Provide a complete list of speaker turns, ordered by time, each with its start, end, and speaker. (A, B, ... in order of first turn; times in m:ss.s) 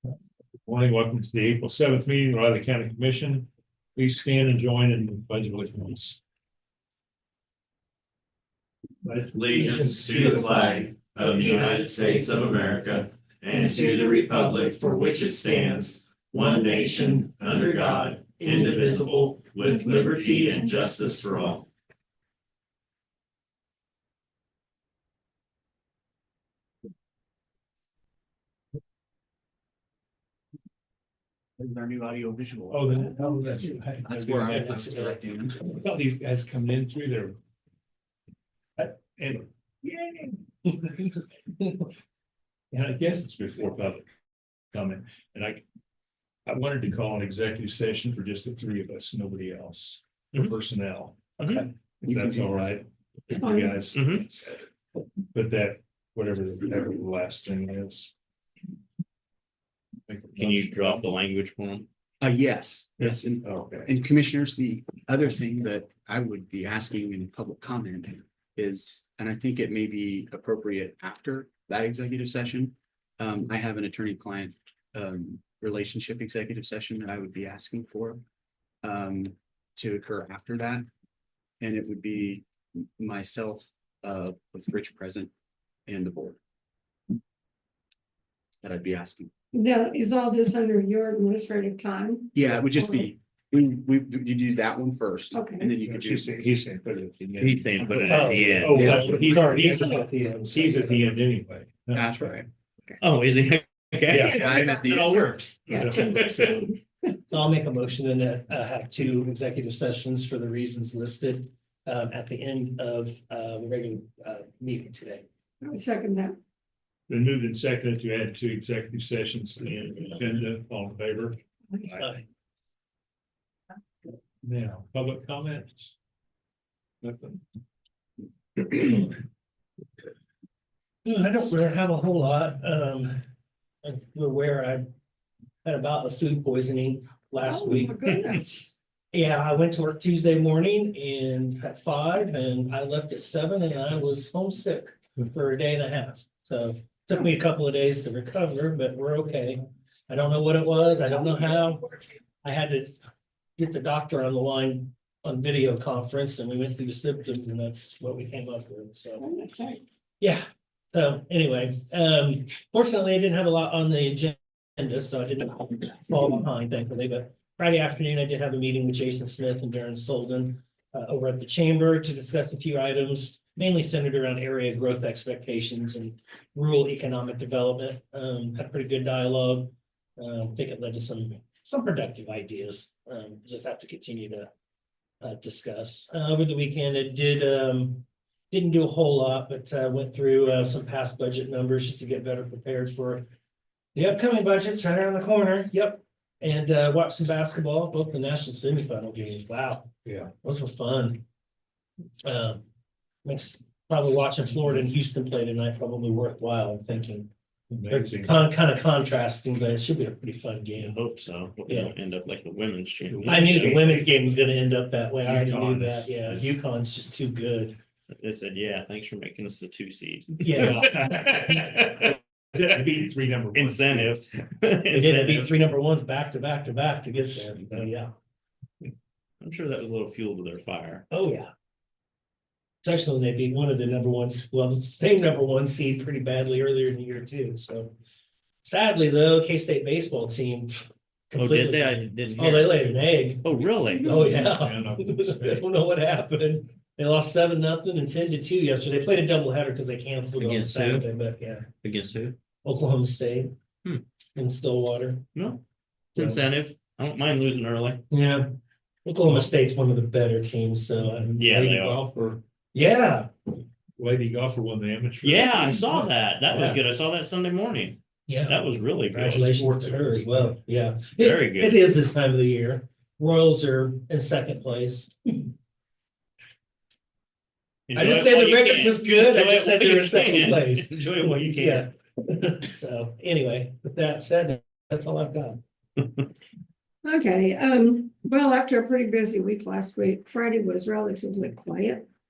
0:00.6-0:06.2 A
0:09.2-0:21.7 B
0:09.5-0:12.8 C
0:09.7-0:10.1 A
0:13.5-0:20.7 C
0:31.6-0:33.0 D
0:32.7-0:34.9 A
0:33.0-0:33.9 C
0:34.0-0:35.6 D
0:34.5-0:34.9 C
0:35.6-0:37.4 A
0:38.8-0:39.5 A
0:39.8-0:41.1 C
0:42.7-0:44.1 A
0:44.7-0:45.6 A
0:46.4-0:54.6 A
0:51.4-0:51.7 B
0:52.0-0:52.5 D
0:53.3-0:53.8 E
0:53.9-0:54.2 B
0:55.3-0:58.1 A
1:00.1-1:01.1 A
1:00.4-1:01.9 B
1:02.2-1:18.2 D
1:03.0-1:03.9 A
1:18.8-1:20.9 D
1:21.6-1:25.3 D
1:25.9-1:26.4 D
1:28.6-1:29.3 D
1:29.5-1:33.1 E
1:32.3-1:36.4 D
1:35.3-1:35.7 E
1:35.8-1:42.0 A
1:37.4-1:39.1 B
1:38.1-1:41.0 C
1:38.6-1:39.1 D
1:41.9-1:42.5 D
1:43.0-1:45.8 B
1:44.1-1:45.3 D
1:44.1-1:44.4 A
1:45.2-1:46.6 A
1:45.7-1:46.8 E
1:47.3-1:55.2 C
1:55.6-1:56.4 E
1:57.1-2:02.2 A
2:04.4-2:05.9 A
2:07.0-2:07.4 A
2:08.7-2:09.1 A
2:11.0-2:13.2 C
2:13.8-2:14.8 C
2:15.6-2:17.9 C
2:17.4-2:18.7 E
2:19.1-2:33.0 C
2:33.6-2:39.2 C
2:39.2-2:39.8 E
2:40.2-3:04.5 C
3:05.2-3:13.3 C
3:13.9-3:19.9 C
3:20.0-3:20.3 A
3:20.4-3:21.2 C
3:22.2-3:22.6 C
3:23.2-3:27.3 C
3:27.7-3:28.3 A
3:27.9-3:31.0 C
3:30.8-3:33.7 B
3:31.6-3:31.9 C
3:33.0-3:34.1 A
3:33.2-3:37.8 C
3:35.2-3:36.1 A
3:36.3-3:36.5 B
3:38.1-3:42.1 B
3:40.4-3:40.9 C
3:40.5-3:44.2 A
3:43.5-3:45.5 B
3:44.9-3:48.1 C
3:49.4-3:51.1 B
3:51.1-3:51.5 C
3:52.8-3:57.9 C
3:58.6-4:03.4 C
4:01.3-4:04.4 B
4:04.0-4:11.7 C
4:04.2-4:05.6 A
4:10.4-4:11.1 B
4:11.8-4:12.4 B
4:12.6-4:13.5 C
4:14.3-4:15.2 C
4:15.3-4:15.6 B
4:16.1-4:18.0 B
4:16.2-4:16.4 C
4:18.1-4:18.5 C
4:19.0-4:21.3 C
4:19.2-4:19.5 A
4:21.2-4:22.4 A
4:21.4-4:22.0 B
4:22.7-4:23.3 C
4:24.0-4:26.8 A
4:25.2-4:29.8 B
4:28.3-4:35.5 C
4:29.8-4:30.6 A
4:31.2-4:31.8 B
4:37.9-4:41.9 B
4:37.9-4:45.6 C
4:47.0-4:52.1 E